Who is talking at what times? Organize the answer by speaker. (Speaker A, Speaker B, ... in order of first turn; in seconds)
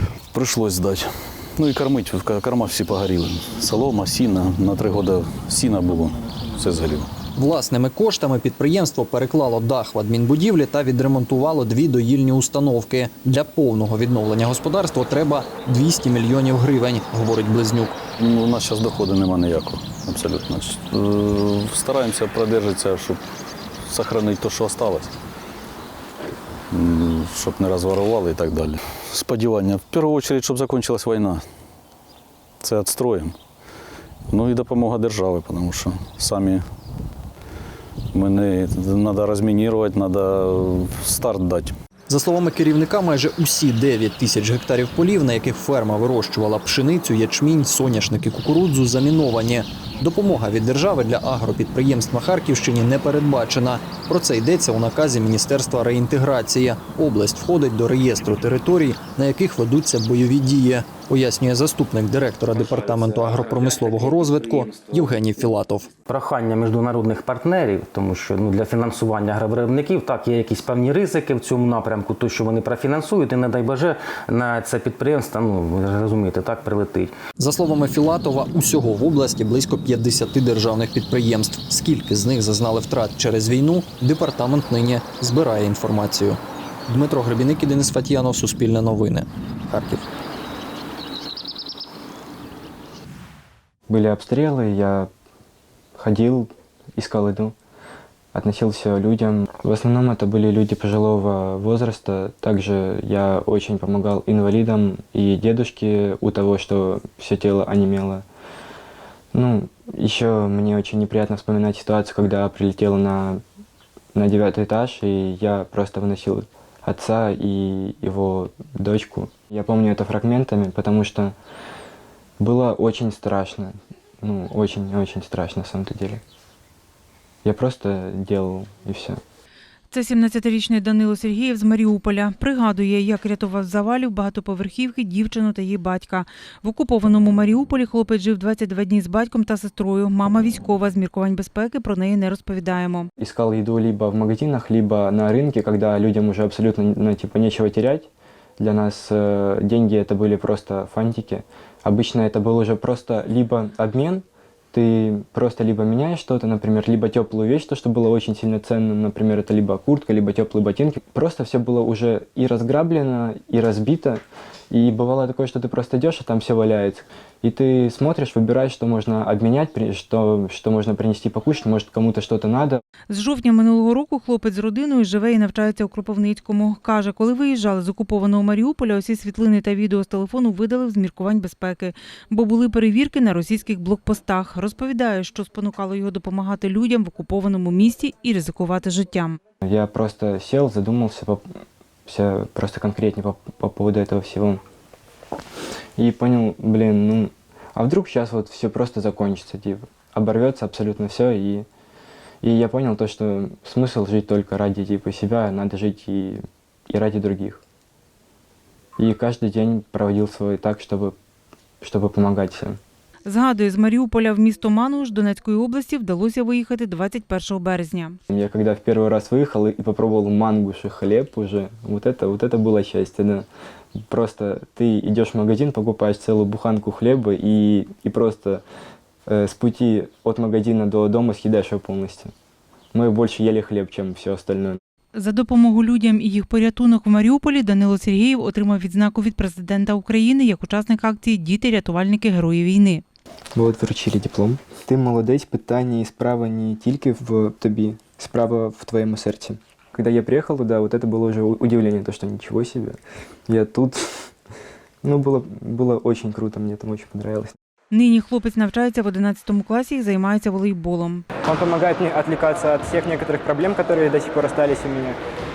Speaker A: 0.3-7.1, 18.2-23.2, 23.9-25.1, 26.7-31.4, 32.6-33.3, 34.3-36.6, 38.1-41.7
Speaker B: 7.3-18.0, 42.1-65.9, 77.4-90.0
Speaker C: 62.8-64.7, 66.1-77.1
Speaker D: 93.9-95.1, 96.0-97.5, 98.3-108.2, 109.3-113.4, 114.1-121.3, 122.4-126.2, 127.4-129.2, 143.2-172.8, 189.6-191.4, 192.1-194.6, 196.0-201.7, 202.4-207.6, 209.0-211.1, 211.8-212.8, 218.3-223.4, 224.1-228.6, 229.3-232.3, 232.9-234.8, 243.5-254.3, 255.0-257.5, 261.4-265.2
Speaker E: 129.9-143.1, 173.1-189.4, 213.2-218.2, 235.1-243.0, 257.9-261.2